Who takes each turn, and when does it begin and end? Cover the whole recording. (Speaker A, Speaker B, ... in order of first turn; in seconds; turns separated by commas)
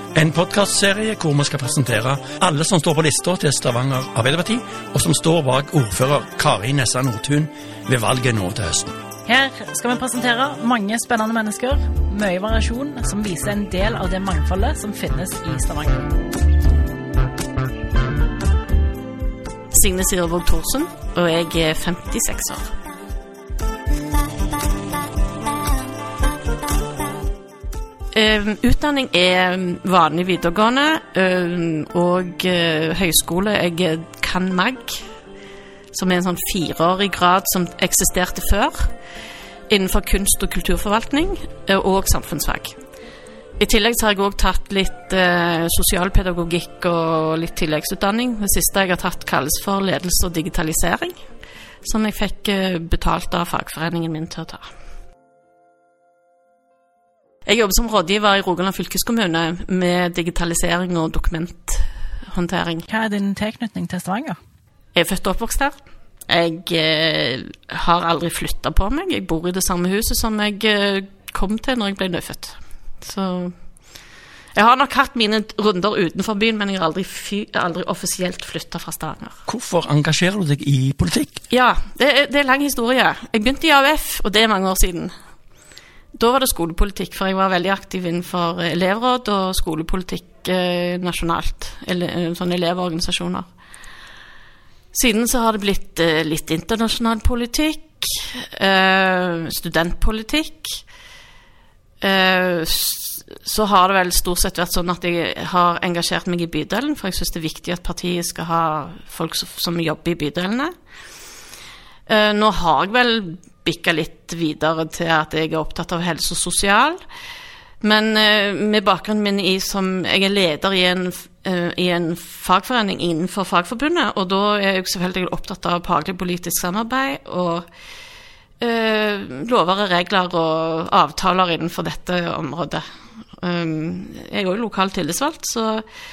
Speaker A: 0.1-8.9, Speaker B: 9.3-16.1, Speaker C: 19.7-22.7, Speaker C: 28.1-35.0, Speaker C: 35.9-38.9, Speaker C: 39.7-42.8, Speaker C: 43.6-51.1, Speaker C: 51.8-54.7, Speaker C: 57.5-62.9, Speaker B: 62.9-64.4, Speaker C: 64.9-73.5, Speaker C: 74.5-79.4, Speaker A: 79.5-81.4, Speaker C: 81.5-85.1, Speaker C: 86.2-93.4, Speaker C: 94.9-100.8, Speaker C: 102.0-110.7, Speaker C: 112.1-117.0, Speaker C: 117.8-127.6, Speaker C: 128.6-132.8, Speaker C: 133.4-135.8